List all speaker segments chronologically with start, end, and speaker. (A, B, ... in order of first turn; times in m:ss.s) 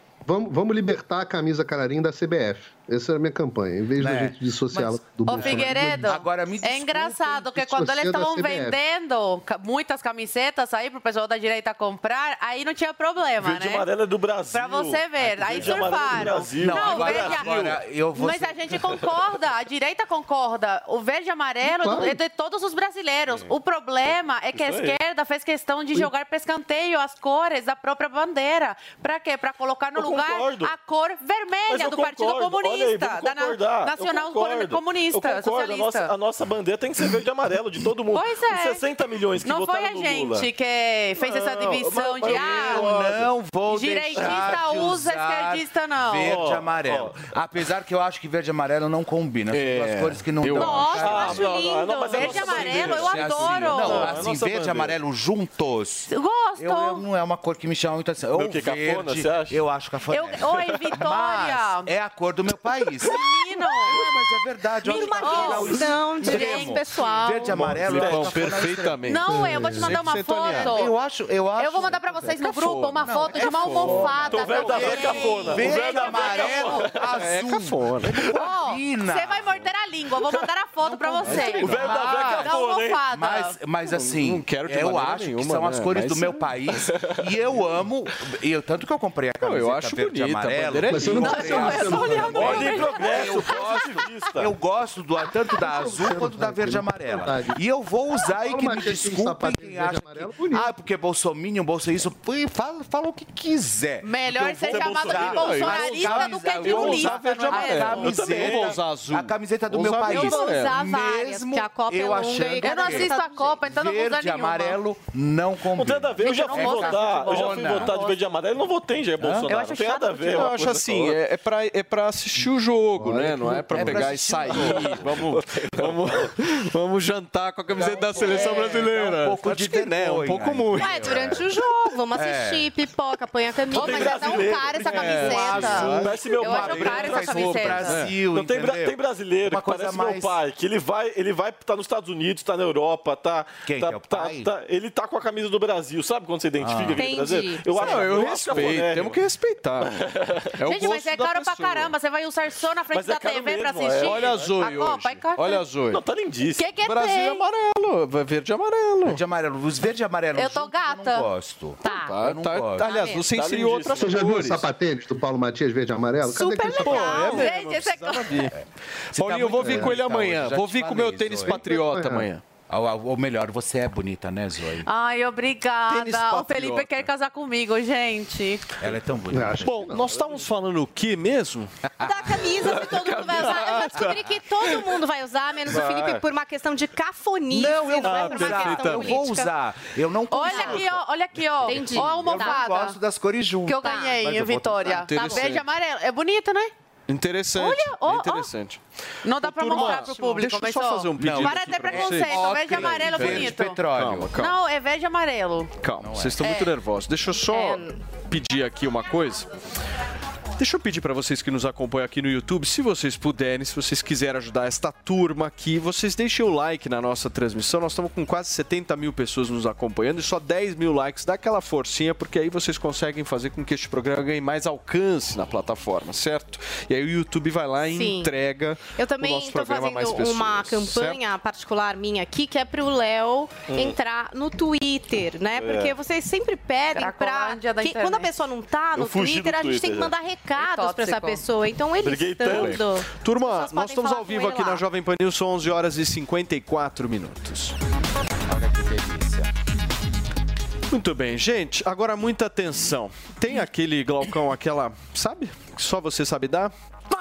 0:00.3-0:06.2 A
0:04.0-0:07.1 B
0:05.2-0:13.9 C
0:06.9-0:08.8 A
0:13.4-0:17.8 D
0:14.5-0:36.1 C
0:15.5-0:18.6 B
0:21.6-0:22.2 A
0:24.5-0:25.0 D
0:29.9-0:30.7 D
0:31.7-0:40.5 D
0:38.1-0:38.8 C
0:39.4-0:42.9 C
0:41.2-0:43.2 D
0:42.3-0:51.5 B
0:43.7-0:46.4 C
0:44.1-0:44.6 D
0:46.2-0:47.2 D
0:49.5-0:51.2 E
0:50.6-0:54.2 C
0:51.0-0:55.0 D
0:51.2-0:52.8 F
0:52.2-1:09.3 B
0:56.1-0:57.0 C
0:58.3-0:59.6 D
1:00.1-1:01.9 C
1:03.0-1:04.1 C
1:04.8-1:07.6 C
1:04.9-1:07.1 F
1:07.5-1:10.8 E
1:07.8-1:08.5 D
1:09.1-1:10.9 C
1:10.5-1:19.7 B
1:11.6-1:17.0 C
1:13.5-1:14.5 E
1:14.3-1:17.0 D
1:17.2-1:18.1 E
1:18.3-1:23.6 C
1:20.8-1:22.5 B
1:21.5-1:23.0 D
1:23.1-1:58.0 B
1:23.9-1:26.4 E
1:29.4-1:31.8 E
1:30.9-1:32.7 A
1:31.2-1:34.0 C
1:32.3-1:34.5 D
1:35.5-1:37.6 A
1:38.3-1:40.7 A
1:44.0-1:48.2 C
1:44.6-1:45.6 D
1:45.2-1:50.8 E
1:48.0-1:48.8 D
1:50.0-1:53.6 F
1:52.6-1:54.8 C
1:55.7-2:01.2 D
1:56.2-1:58.2 C
1:59.2-1:59.5 B
1:59.5-2:00.4 C
1:59.9-2:11.4 E
2:03.0-2:04.3 A
2:03.7-2:05.0 B
2:04.5-2:06.2 D
2:07.7-2:11.4 B
2:08.4-2:08.7 F
2:10.8-2:16.0 F
2:12.1-2:12.7 B
2:13.7-2:29.2 D
2:13.7-2:18.1 E
2:14.0-2:14.4 C
2:15.0-2:18.0 C
2:15.2-2:20.4 B
2:23.6-2:24.5 B
2:26.6-2:27.1 B
2:27.0-2:27.9 F
2:27.7-2:31.9 E
2:29.8-2:30.4 D
2:30.6-2:35.6 C
2:32.9-2:34.6 D
2:34.0-2:36.0 E
2:35.9-2:36.7 D
2:36.6-2:37.4 C
2:36.8-2:39.2 E
2:39.0-2:42.9 B
2:40.4-2:41.3 C
2:41.8-2:42.1 C
2:41.8-2:44.7 E
2:43.3-2:44.2 D
2:44.0-2:47.3 A
2:46.2-2:47.5 F
2:46.8-2:48.6 E
2:46.8-2:48.4 C
2:48.5-2:51.6 B
2:49.1-2:52.4 E
2:49.6-2:49.9 A
2:51.5-2:52.3 A
2:52.7-2:54.8 B
2:54.8-2:58.6 C
2:55.9-2:57.1 E
2:58.8-2:59.9 B
2:59.3-3:00.1 A
2:59.5-3:01.7 E
3:02.0-3:02.8 B
3:02.0-3:09.5 F
3:02.6-3:04.8 E
3:05.7-3:06.2 D
3:07.5-3:15.4 B
3:08.0-3:09.2 E
3:10.3-3:13.0 C
3:10.4-3:10.8 F
3:11.6-3:12.7 F
3:13.6-3:16.7 C
3:13.8-3:14.2 F
3:14.9-3:15.6 E
3:17.1-3:24.6 E
3:17.6-3:18.5 C
3:19.2-3:23.8 C
3:21.2-3:24.4 B
3:24.4-3:25.7 C
3:25.8-3:29.5 E
3:26.0-3:26.6 B
3:27.5-3:28.0 F
3:30.6-3:51.2 E
3:47.9-3:48.3 F
3:49.0-4:04.8 F
3:53.7-3:54.0 D
3:55.5-3:56.0 D
3:56.9-3:58.3 C
3:58.9-4:00.1 D
4:00.6-4:01.4 C
4:02.0-4:02.9 D
4:02.4-4:07.7 E
4:08.5-4:09.5 B
4:10.9-4:16.7 E